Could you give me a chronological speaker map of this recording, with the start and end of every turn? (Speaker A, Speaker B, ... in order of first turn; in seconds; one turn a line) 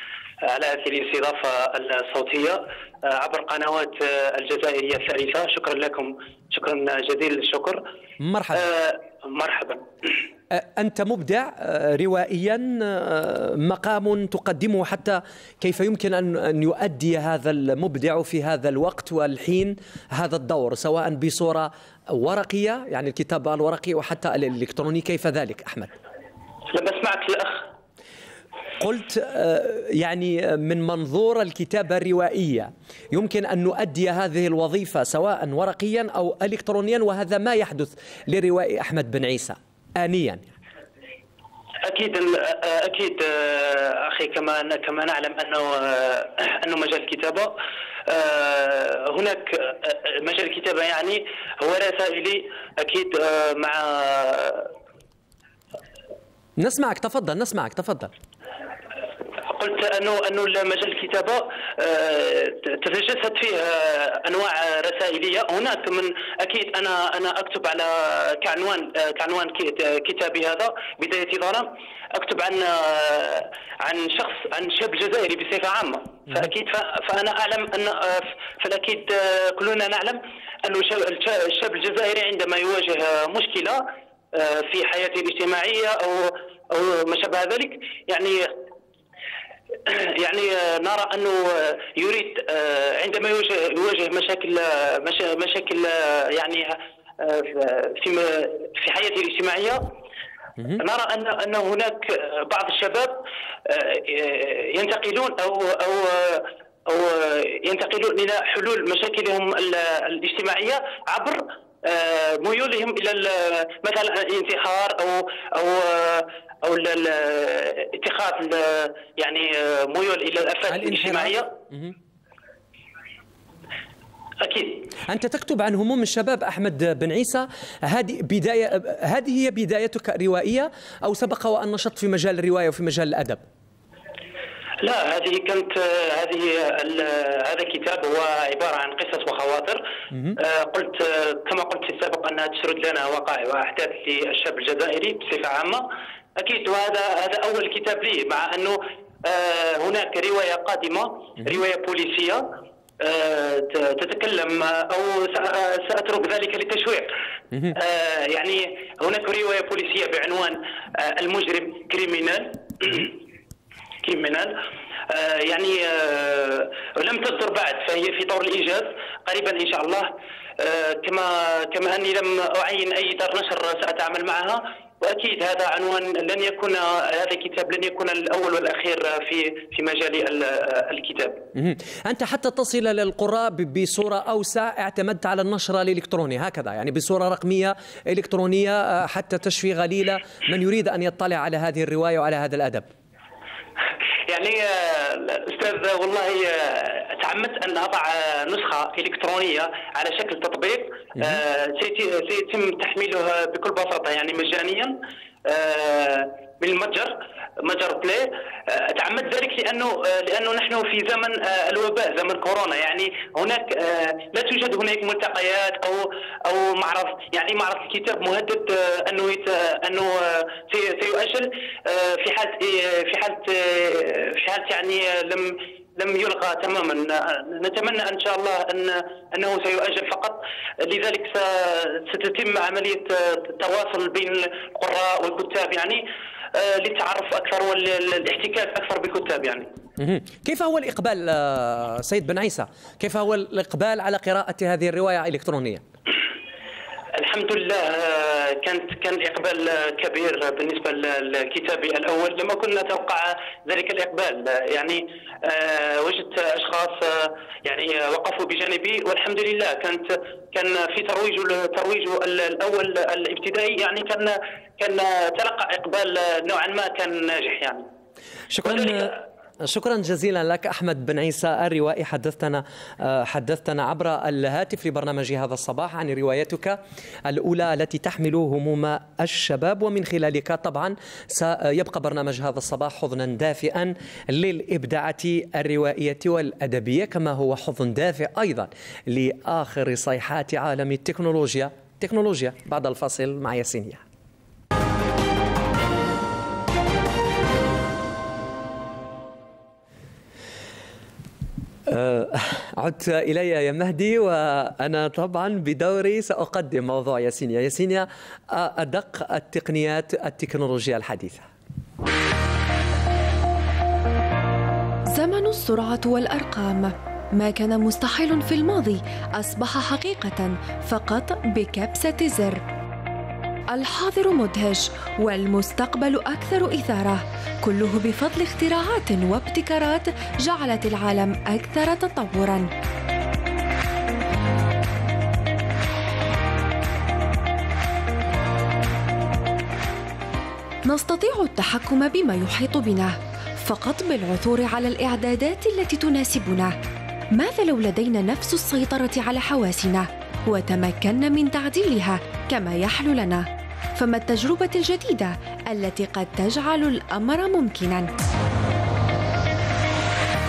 Speaker A: 0.5-7.8
Speaker B: 8.2-8.7
Speaker A: 8.5-9.8
Speaker B: 10.5-25.9
Speaker A: 26.7-27.6
Speaker B: 28.8-40.4
Speaker A: 41.9-47.5
Speaker A: 48.1-54.7
Speaker B: 56.6-58.1
Speaker A: 59.5-88.5
Speaker A: 89.9-99.9
Speaker A: 100.8-121.5
Speaker B: 120.7-121.9
Speaker A: 124.4-124.8
Speaker B: 125.1-133.4
Speaker A: 134.8-139.8
Speaker A: 140.4-145.8
Speaker A: 146.4-152.5
Speaker A: 153.0-157.1
Speaker A: 157.7-163.2
Speaker A: 164.0-164.6
Speaker A: 165.1-181.4
Speaker B: 181.6-192.9
Speaker A: 194.3-236.0
Speaker A: 236.5-239.7
Speaker B: 240.0-245.8
Speaker A: 247.2-267.9
Speaker B: 268.5-294.0
Speaker A: 268.6-269.1
Speaker B: 301.9-311.5
Speaker C: 315.1-322.6
Speaker C: 323.7-332.7
Speaker C: 340.9-346.8
Speaker C: 347.3-358.1